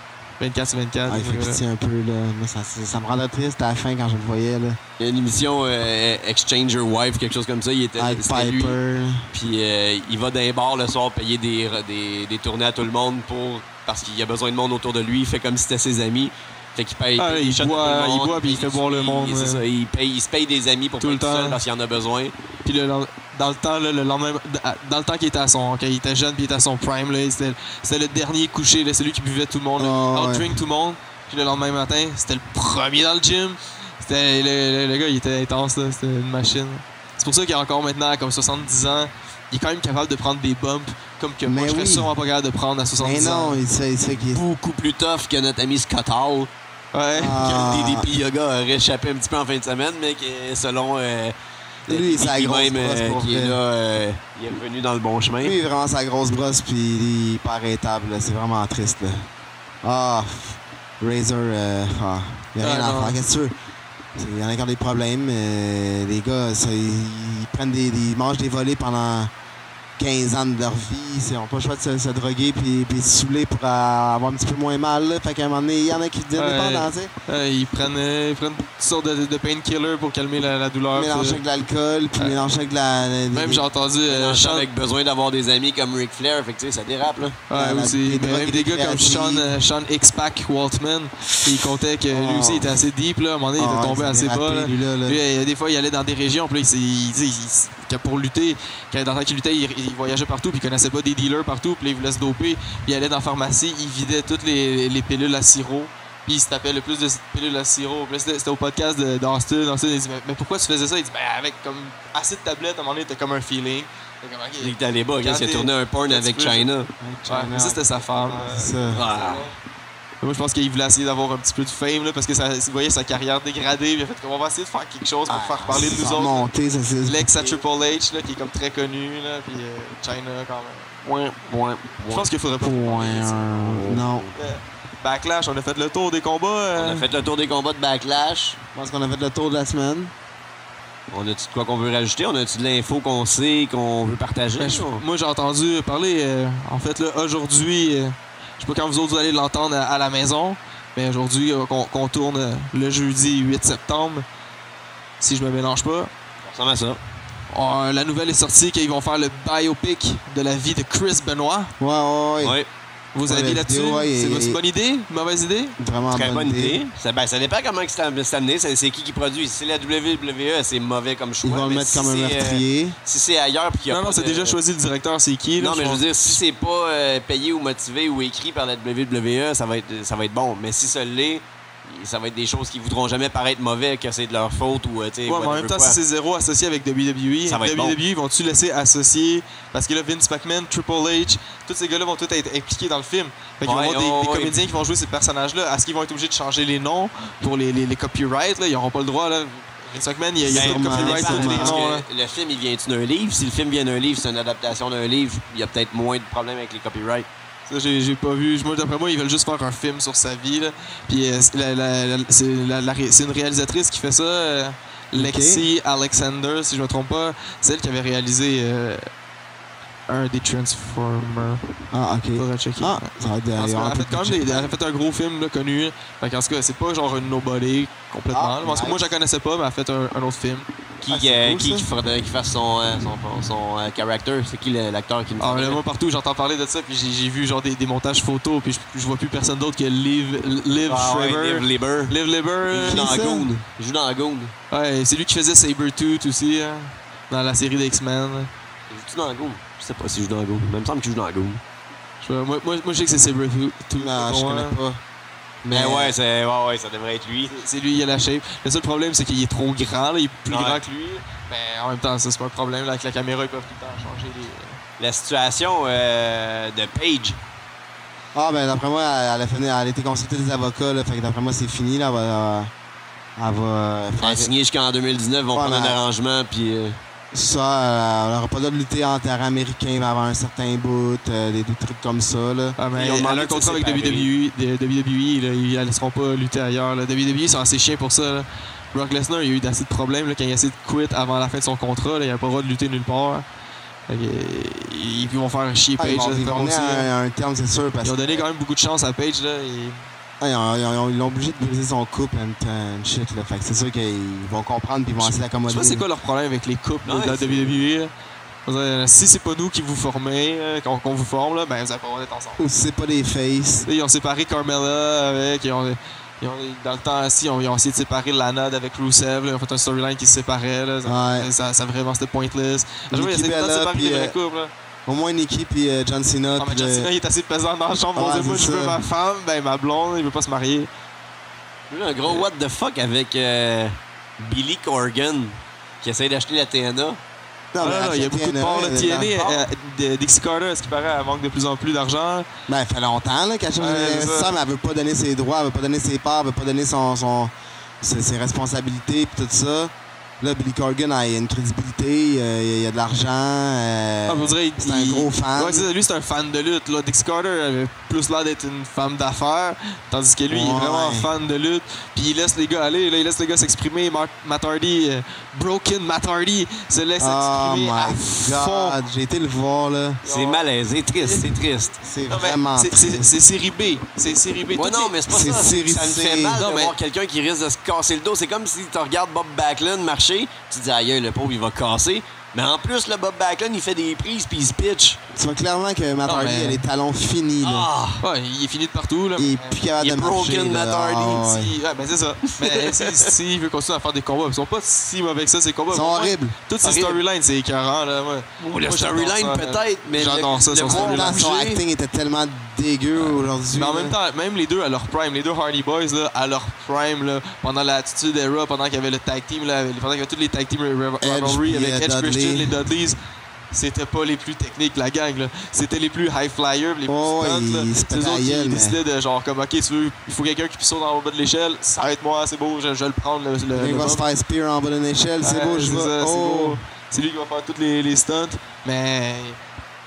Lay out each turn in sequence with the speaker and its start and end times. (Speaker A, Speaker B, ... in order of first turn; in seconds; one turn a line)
Speaker A: 0.4-1.6
Speaker B: 1.1-4.8
Speaker C: 5.0-8.8
Speaker B: 8.0-9.3
Speaker C: 9.3-22.3
Speaker A: 17.2-19.6
Speaker A: 21.0-21.6
Speaker A: 22.6-43.6
Speaker B: 29.8-30.6
Speaker B: 41.5-42.1
Speaker B: 43.0-44.4
Speaker C: 44.2-46.5
Speaker A: 46.9-47.7
Speaker B: 47.1-48.1
Speaker C: 47.4-51.4
Speaker C: 51.9-55.6
Speaker B: 51.9-53.6
Speaker B: 55.4-59.3
Speaker B: 59.8-63.5
Speaker A: 62.6-63.2
Speaker B: 64.2-69.3
Speaker B: 70.0-77.1
Speaker A: 76.4-81.4
Speaker B: 80.9-83.7
Speaker A: 82.2-82.5
Speaker A: 83.3-84.7
Speaker C: 84.1-87.4
Speaker A: 87.5-116.7
Speaker B: 87.5-89.5
Speaker B: 92.1-92.8
Speaker B: 93.6-95.2
Speaker C: 114.6-116.9
Speaker B: 117.0-119.1
Speaker A: 117.3-119.5
Speaker C: 118.9-119.5
Speaker A: 120.2-126.5
Speaker B: 125.3-127.3
Speaker A: 127.0-131.0
Speaker C: 131.0-134.3
Speaker A: 132.1-133.6
Speaker B: 132.6-134.3
Speaker A: 134.4-137.1
Speaker C: 136.8-138.6
Speaker B: 138.8-140.1
Speaker C: 141.1-145.0
Speaker A: 144.6-154.2
Speaker A: 155.2-156.1
Speaker C: 156.4-157.0
Speaker A: 157.5-161.7
Speaker B: 161.8-162.6
Speaker C: 162.4-162.7
Speaker A: 163.1-165.8
Speaker B: 163.2-164.6
Speaker B: 165.8-166.8
Speaker C: 166.1-174.6
Speaker B: 171.4-173.0
Speaker A: 173.9-176.3
Speaker C: 175.6-186.0
Speaker A: 185.3-202.1
Speaker C: 187.5-188.0
Speaker C: 193.6-194.6
Speaker B: 200.4-201.8
Speaker C: 200.5-207.3
Speaker A: 207.7-219.0
Speaker B: 215.1-215.6
Speaker A: 220.1-221.6
Speaker B: 221.9-224.7
Speaker A: 222.4-230.7
Speaker B: 228.3-229.1
Speaker C: 231.0-235.8
Speaker B: 231.1-231.9
Speaker A: 235.4-243.2
Speaker C: 240.9-242.2
Speaker C: 242.7-244.5
Speaker B: 242.8-243.5
Speaker A: 244.7-248.5
Speaker C: 248.9-251.6
Speaker A: 252.2-254.8
Speaker B: 254.0-255.0
Speaker B: 255.6-256.2
Speaker C: 255.7-257.5
Speaker A: 257.5-264.8
Speaker C: 260.5-260.8
Speaker C: 265.0-267.4
Speaker B: 268.4-272.7
Speaker B: 273.4-274.5
Speaker C: 274.2-277.0
Speaker B: 275.5-276.0
Speaker B: 277.3-282.8
Speaker A: 282.8-293.4
Speaker C: 282.9-284.3
Speaker A: 294.1-297.1
Speaker B: 296.0-298.5
Speaker A: 298.0-300.0
Speaker B: 300.4-306.0
Speaker A: 305.2-308.1
Speaker C: 307.1-307.9
Speaker A: 308.7-312.6
Speaker B: 312.6-313.9
Speaker A: 313.9-324.7
Speaker B: 321.1-321.5
Speaker B: 323.1-324.3
Speaker B: 325.1-327.1
Speaker A: 326.6-330.9
Speaker B: 328.2-329.0
Speaker C: 331.9-337.2
Speaker B: 337.7-339.4
Speaker A: 337.8-342.5
Speaker C: 339.4-339.6
Speaker B: 342.7-355.9
Speaker A: 343.8-344.5
Speaker A: 354.3-369.0
Speaker B: 360.5-361.3
Speaker B: 367.2-370.2
Speaker A: 370.2-371.6
Speaker C: 370.2-372.0
Speaker B: 372.0-373.3
Speaker A: 372.3-375.1
Speaker C: 374.8-385.2
Speaker B: 375.3-376.6
Speaker A: 376.6-376.9
Speaker B: 385.3-387.9
Speaker A: 386.3-386.8
Speaker C: 387.6-388.2
Speaker A: 388.2-389.8
Speaker B: 389.4-391.8
Speaker C: 390.0-391.5
Speaker A: 391.4-401.4
Speaker C: 392.6-393.3
Speaker B: 395.9-396.6
Speaker C: 396.8-397.2
Speaker C: 398.6-401.8
Speaker B: 400.9-404.1
Speaker A: 403.7-413.2
Speaker B: 411.2-412.8
Speaker A: 413.7-424.2
Speaker B: 417.1-419.0
Speaker B: 423.8-426.8
Speaker A: 425.4-429.6